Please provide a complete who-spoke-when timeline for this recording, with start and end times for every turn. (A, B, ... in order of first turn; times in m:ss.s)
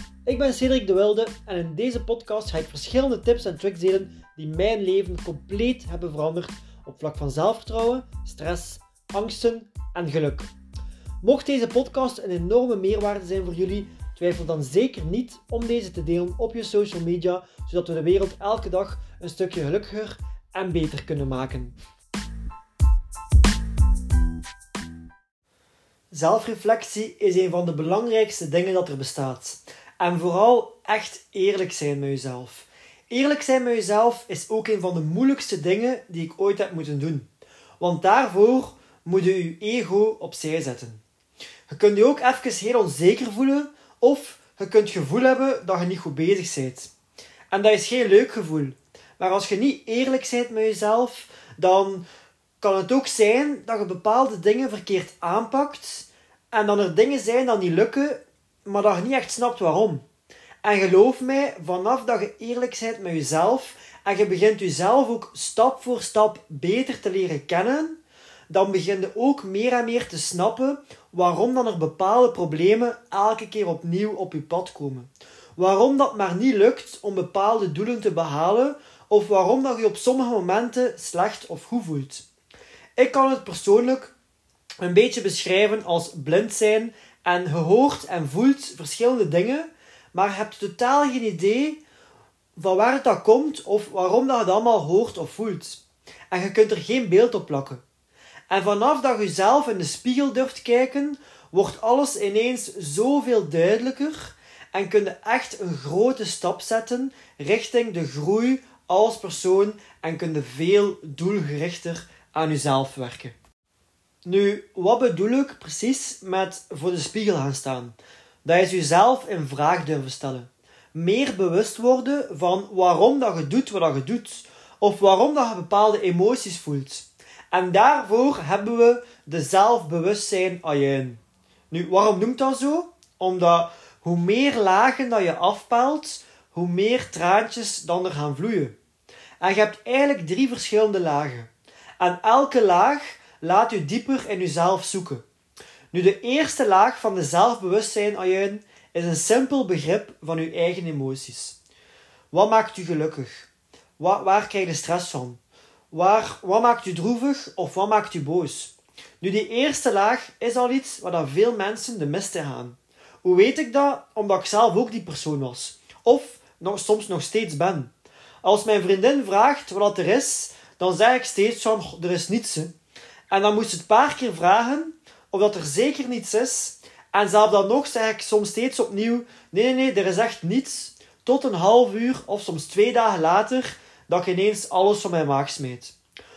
0:00.2-0:10.5 A
0:11.2-0:21.7 A
0:26.1-0:37.3 A
0:37.8-0:41.0 A
0:41.7-0:46.9 A
0:47.5-0:52.0 A
0:52.6-1:00.0 A
1:00.6-1:08.0 A
1:08.5-1:22.2 A
1:23.0-1:24.1 A
1:24.8-1:31.8 A
1:32.6-1:37.8 A
1:38.5-1:53.4 A
1:54.2-2:11.2 A
2:11.7-2:18.8 A
2:19.4-2:25.2 A
2:25.9-2:31.6 A
2:32.3-2:35.4 A
2:35.9-2:47.9 A
2:48.4-2:52.7 A
2:53.3-3:05.9 A